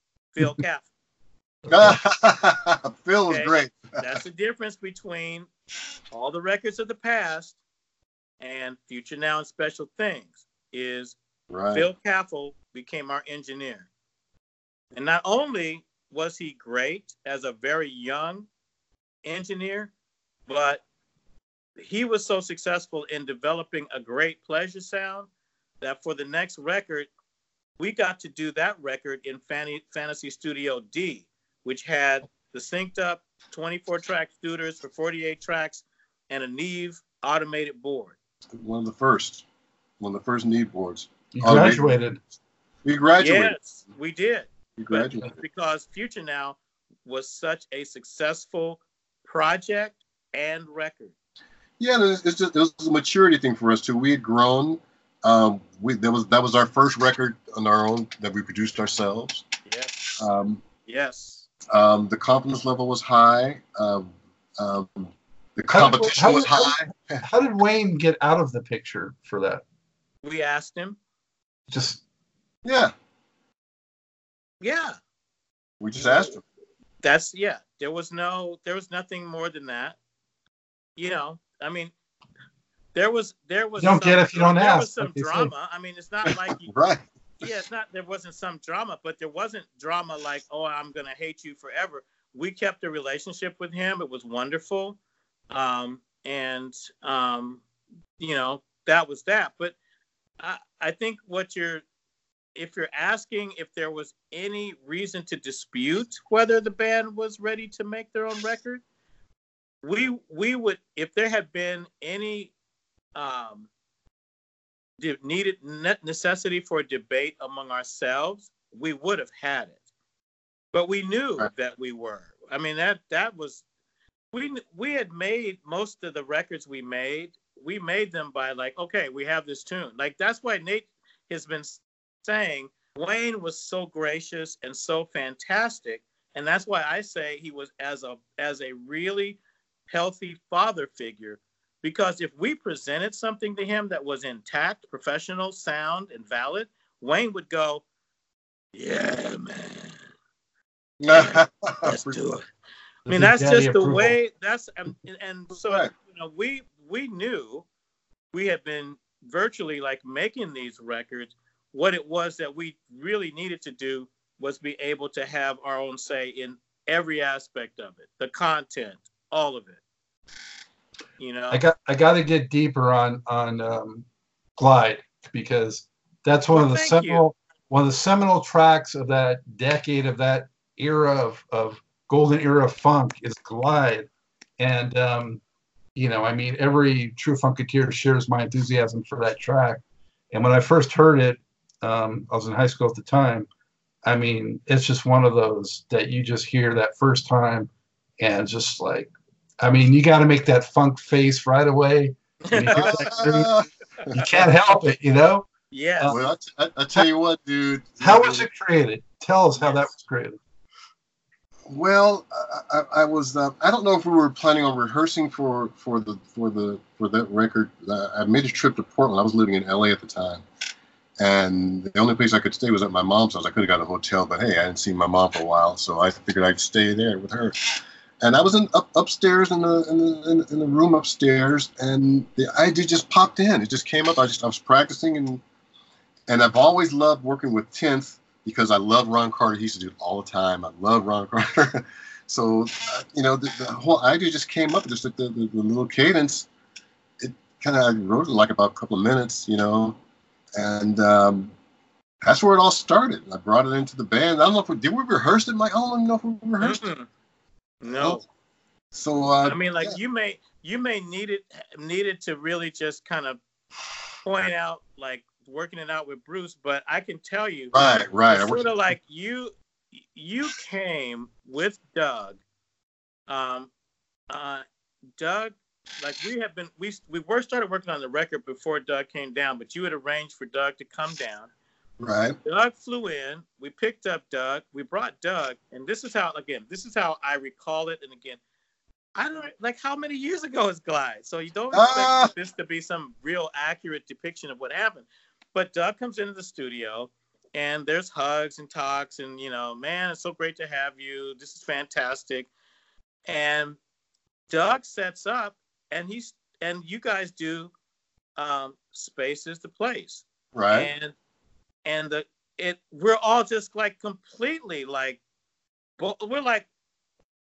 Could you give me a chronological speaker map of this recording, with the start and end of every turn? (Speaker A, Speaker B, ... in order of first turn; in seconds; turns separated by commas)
Speaker A: 0.3-0.9, Speaker B: 1.6-2.0, Speaker C: 1.7-4.0, Speaker A: 3.3-5.5, Speaker A: 6.1-7.6, Speaker A: 8.4-11.2, Speaker C: 11.5-11.9, Speaker A: 11.7-13.9, Speaker A: 14.9-18.5, Speaker A: 19.2-19.9, Speaker A: 20.5-20.8, Speaker A: 21.8-25.3, Speaker A: 25.8-27.1, Speaker A: 27.8-38.2, Speaker C: 38.5-39.4, Speaker C: 40.0-42.0, Speaker B: 41.3-42.2, Speaker C: 42.9-43.6, Speaker A: 43.2-51.1, Speaker C: 44.8-45.3, Speaker C: 51.8-59.4, Speaker A: 59.7-60.2, Speaker C: 60.2-60.6, Speaker A: 60.9-61.5, Speaker C: 61.7-67.2, Speaker B: 65.7-69.6, Speaker A: 70.2-71.0, Speaker B: 71.7-72.0, Speaker C: 72.7-72.9, Speaker A: 74.6-75.0, Speaker C: 75.8-76.4, Speaker A: 77.0-80.0, Speaker A: 81.0-81.9, Speaker A: 82.9-86.7, Speaker B: 83.8-85.5, Speaker C: 86.3-87.1, Speaker A: 87.4-95.0, Speaker A: 95.5-97.6, Speaker A: 98.2-99.8, Speaker A: 100.4-101.8, Speaker A: 102.5-108.8, Speaker A: 109.8-112.5, Speaker A: 113.2-113.7, Speaker A: 115.0-119.8, Speaker A: 120.7-123.6, Speaker A: 124.3-147.8, Speaker A: 148.7-150.0, Speaker C: 151.0-152.2, Speaker A: 151.1-152.5, Speaker B: 153.1-154.2, Speaker A: 153.1-157.7, Speaker A: 158.3-169.8, Speaker A: 171.2-171.6, Speaker B: 171.5-174.1, Speaker B: 174.6-185.4, Speaker A: 176.5-177.3, Speaker B: 186.0-193.5, Speaker B: 194.1-203.5, Speaker A: 202.5-203.2, Speaker C: 202.7-204.2, Speaker B: 204.2-206.2, Speaker A: 205.7-206.2, Speaker C: 206.1-208.5, Speaker B: 208.0-210.4, Speaker C: 211.7-220.4, Speaker C: 221.2-235.4, Speaker C: 236.3-246.5, Speaker C: 247.2-250.0, Speaker C: 250.6-251.5, Speaker C: 252.2-256.8, Speaker A: 256.6-257.1, Speaker A: 257.8-258.2, Speaker C: 257.9-258.2, Speaker C: 258.9-260.0, Speaker A: 259.4-263.4, Speaker A: 264.2-269.5, Speaker C: 267.7-268.7, Speaker A: 270.1-272.4, Speaker A: 273.3-273.7, Speaker A: 274.3-274.6, Speaker A: 275.2-281.5, Speaker C: 282.0-282.4, Speaker A: 282.4-288.4, Speaker A: 289.2-302.5, Speaker C: 291.7-292.3, Speaker A: 303.3-303.8, Speaker A: 304.5-307.7, Speaker A: 308.4-311.1, Speaker C: 310.5-310.9, Speaker A: 311.9-315.2, Speaker A: 316.0-316.7